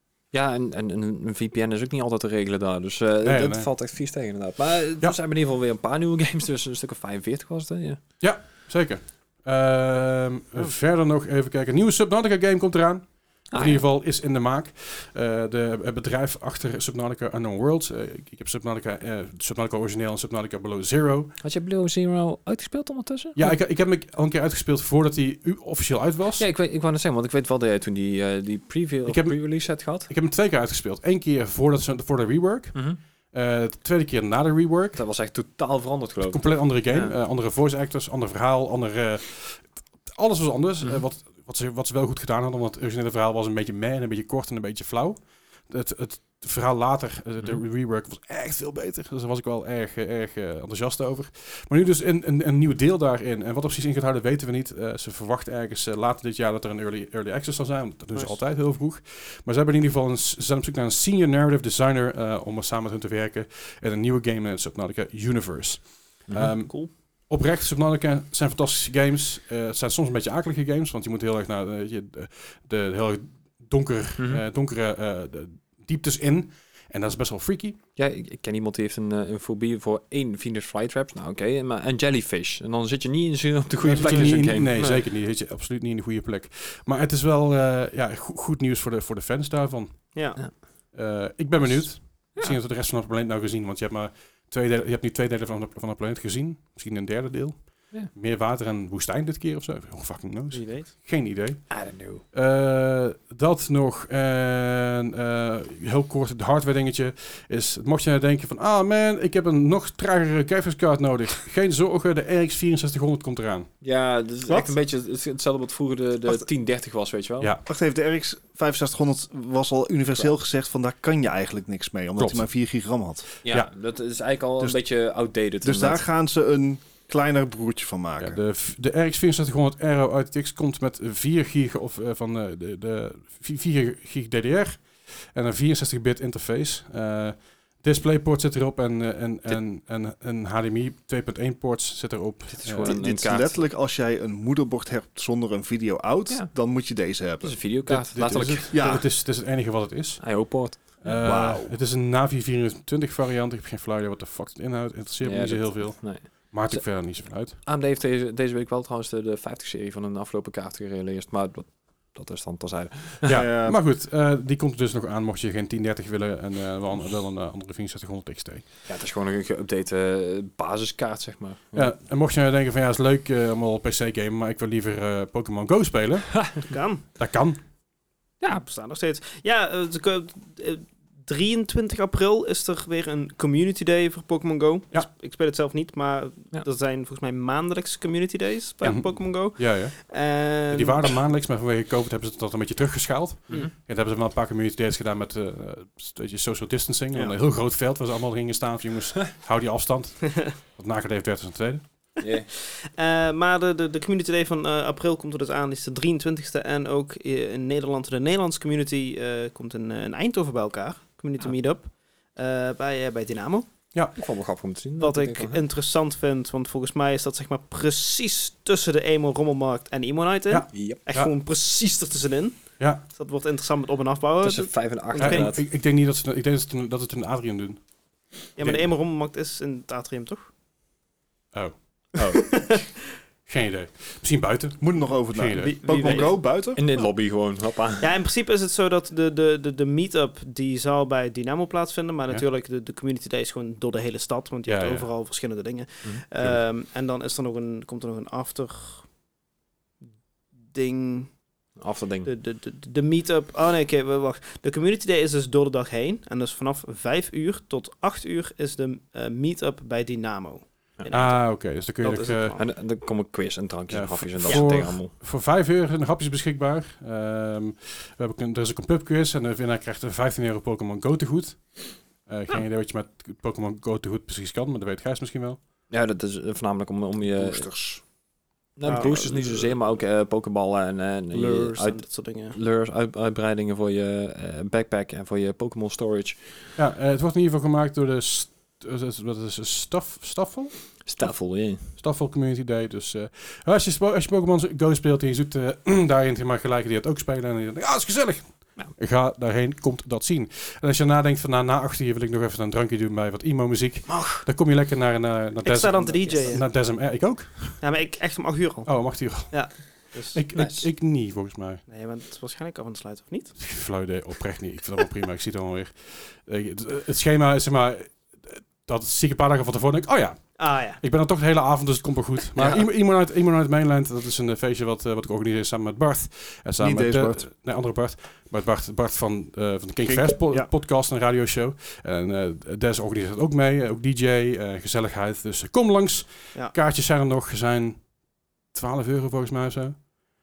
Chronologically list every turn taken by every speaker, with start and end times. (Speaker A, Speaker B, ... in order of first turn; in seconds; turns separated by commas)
Speaker A: 0.3-8.0, Speaker B: 3.2-3.7, Speaker B: 8.2-21.3, Speaker A: 13.5-13.8, Speaker A: 21.4-23.6, Speaker B: 23.4-26.4, Speaker A: 26.4-30.1, Speaker B: 29.1-35.0, Speaker A: 32.7-33.0, Speaker A: 35.0-37.1, Speaker B: 36.2-77.8, Speaker A: 66.3-66.5, Speaker A: 78.0-85.0, Speaker B: 83.8-113.7, Speaker C: 90.1-90.4, Speaker C: 100.5-100.9, Speaker A: 101.7-102.2, Speaker A: 113.8-117.5, Speaker D: 117.7-123.3, Speaker B: 122.2-122.5, Speaker A: 123.4-126.0, Speaker D: 125.6-128.4, Speaker B: 128.2-143.0, Speaker A: 142.5-143.7, Speaker D: 142.8-147.6, Speaker A: 146.3-146.6, Speaker A: 147.4-148.7, Speaker B: 147.9-157.6, Speaker D: 148.7-149.1, Speaker A: 150.2-151.1, Speaker D: 151.1-151.8, Speaker A: 155.2-163.4, Speaker B: 163.2-168.7, Speaker D: 163.3-163.8, Speaker A: 168.9-171.9, Speaker B: 171.7-176.6, Speaker C: 176.7-177.1, Speaker B: 177.2-177.6, Speaker C: 178.5-191.2, Speaker B: 188.8-190.1, Speaker B: 190.7-201.8, Speaker A: 202.2-202.5, Speaker C: 202.7-213.7, Speaker A: 214.2-215.6, Speaker C: 215.0-225.5, Speaker B: 220.5-221.3, Speaker A: 220.7-221.0, Speaker A: 224.4-225.6, Speaker B: 225.2-227.8, Speaker C: 228.6-230.5, Speaker B: 228.6-228.9, Speaker A: 232.2-232.8, Speaker C: 232.2-232.9, Speaker B: 233.5-235.9, Speaker D: 234.8-236.8, Speaker C: 235.6-236.4, Speaker A: 236.0-238.1, Speaker C: 238.0-249.1, Speaker B: 244.7-245.1, Speaker A: 246.0-246.6, Speaker C: 250.7-251.4, Speaker A: 251.8-252.3, Speaker C: 252.2-262.6, Speaker B: 261.1-262.6, Speaker A: 262.6-265.1, Speaker B: 263.9-275.6, Speaker A: 275.9-277.7, Speaker D: 277.3-278.0, Speaker A: 278.8-286.6, Speaker C: 278.9-279.7, Speaker C: 281.3-282.6, Speaker B: 286.8-291.3, Speaker A: 291.1-291.9, Speaker B: 291.9-307.8, Speaker C: 304.1-304.4, Speaker C: 305.6-306.7, Speaker A: 306.2-306.6, Speaker C: 307.8-310.4, Speaker B: 308.9-311.8, Speaker A: 310.6-310.9, Speaker C: 311.9-313.6, Speaker B: 313.6-338.1, Speaker C: 320.6-321.0, Speaker A: 322.6-322.8, Speaker D: 326.8-327.5, Speaker D: 330.1-330.7, Speaker B: 338.7-340.1